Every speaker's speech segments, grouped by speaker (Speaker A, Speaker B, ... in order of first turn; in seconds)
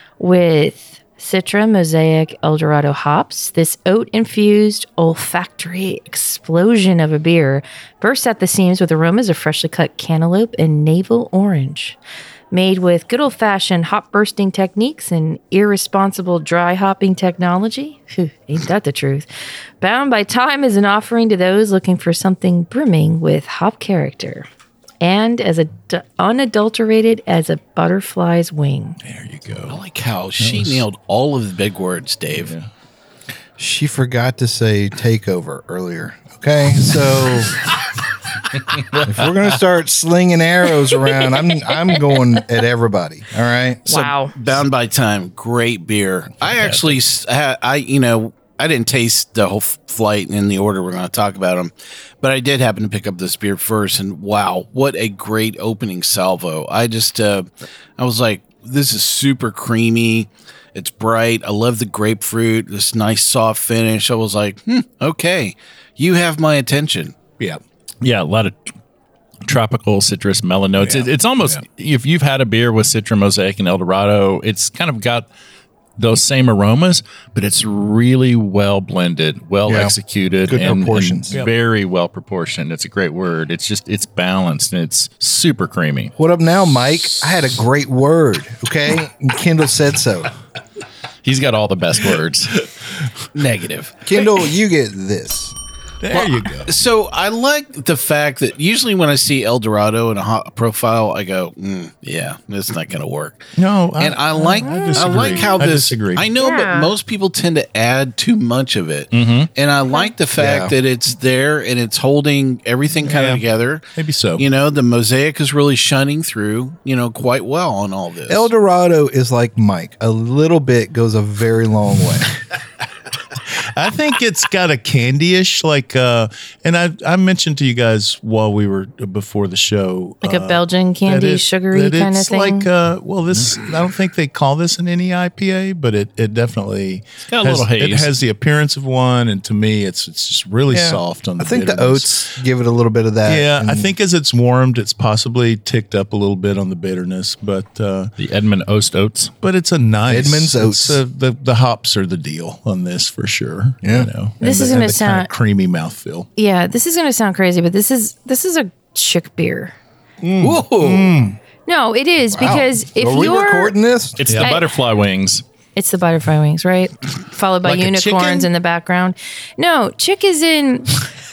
Speaker A: 0.2-12.0, 12.5-19.3, 19.8-24.5, 25.0-29.0, 43.9-44.4, 104.7-105.3, 106.4-106.9, 130.2-132.7, 154.4-155.3, 156.4-159.8, 161.7-163.8, 164.4-164.7, 165.8-171.0
Speaker B: 29.0-29.8, 30.4-30.9, 32.4-32.7, 70.8-71.6, 80.6-81.5, 96.0-96.7, 103.6-106.3, 113.0-113.4, 114.0-114.5, 123.5-142.3, 143.2-148.1, 149.4-156.3, 160.8-161.2, 164.2-164.6, 167.6-168.5
Speaker C: 29.7-32.5, 44.0-67.2, 93.3-94.0, 96.1-103.4, 104.0-113.8, 114.4-118.5, 160.4-161.2
Speaker D: 33.6-37.7, 39.0-43.9, 79.7-79.9, 80.5-81.3, 86.2-90.3, 94.0-95.5, 110.4-110.7, 118.3-122.4, 140.7-143.9, 150.1-151.0, 153.8-154.1, 160.2-161.2, 162.3-164.2
Speaker E: 46.6-46.9, 68.0-68.7, 69.5-75.3, 76.0-86.1, 91.2-92.7, 109.1-109.5, 137.3-138.1, 148.2-149.3, 164.2-165.4